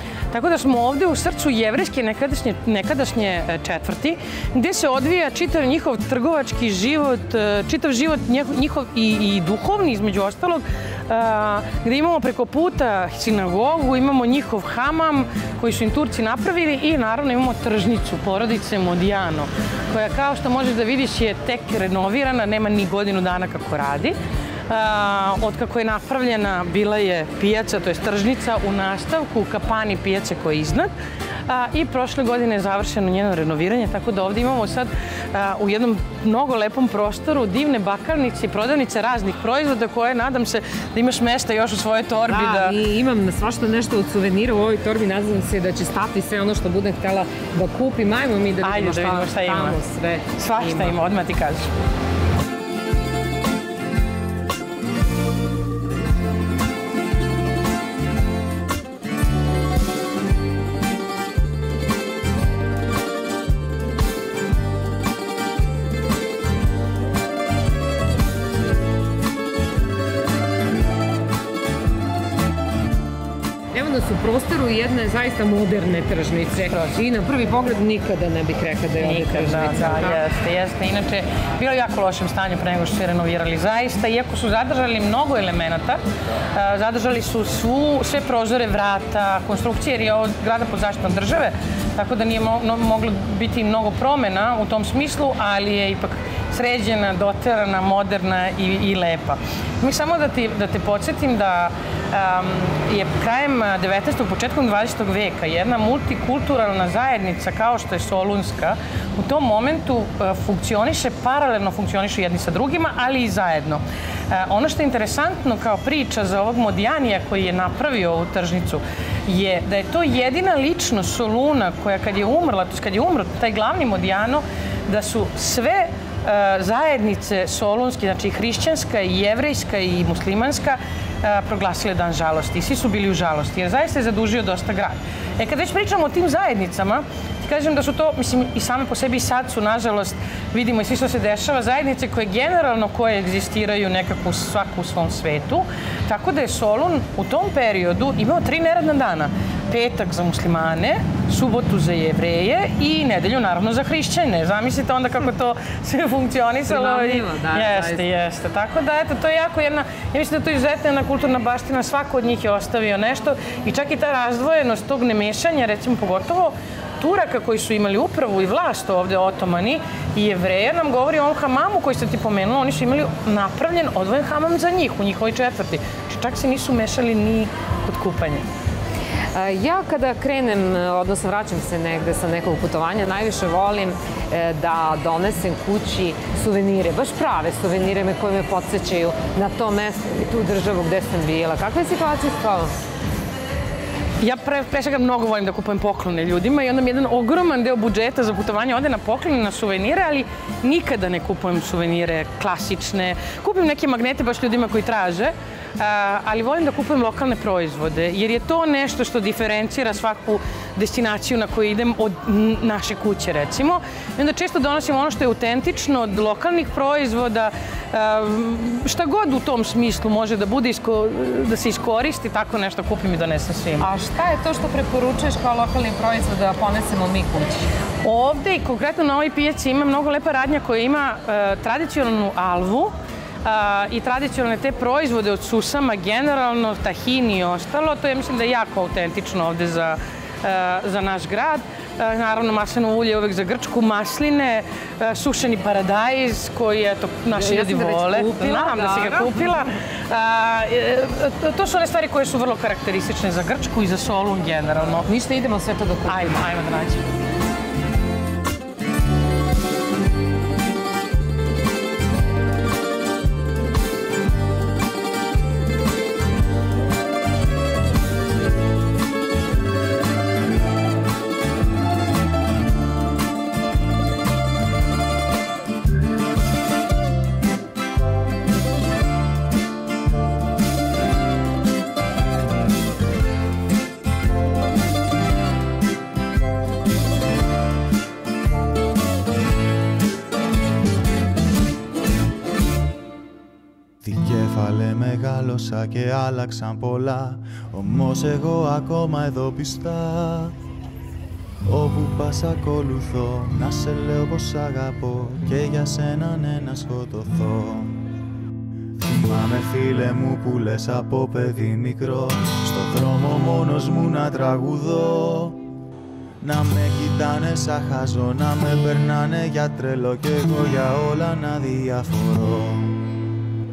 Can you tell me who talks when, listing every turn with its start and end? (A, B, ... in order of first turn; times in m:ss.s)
0:00.3-0:24.2 A
0:24.7-0:30.9 A
0:31.5-0:42.8 A
0:42.3-0:51.0 B
0:48.6-0:49.8 A
0:50.4-0:51.7 A
1:13.7-1:20.2 B
1:19.0-1:26.0 A
1:26.5-2:58.5 A
2:36.7-2:38.0 B
2:59.4-3:12.7 B
3:14.2-3:43.9 A
3:43.8-3:47.7 B
3:48.0-3:52.9 A
3:53.4-4:15.1 A
4:07.3-4:09.7 B
4:15.1-4:16.4 B
4:16.1-4:17.0 A
4:54.0-5:00.5 C
5:01.7-5:08.0 C
5:09.0-5:15.6 C
5:16.4-5:23.2 C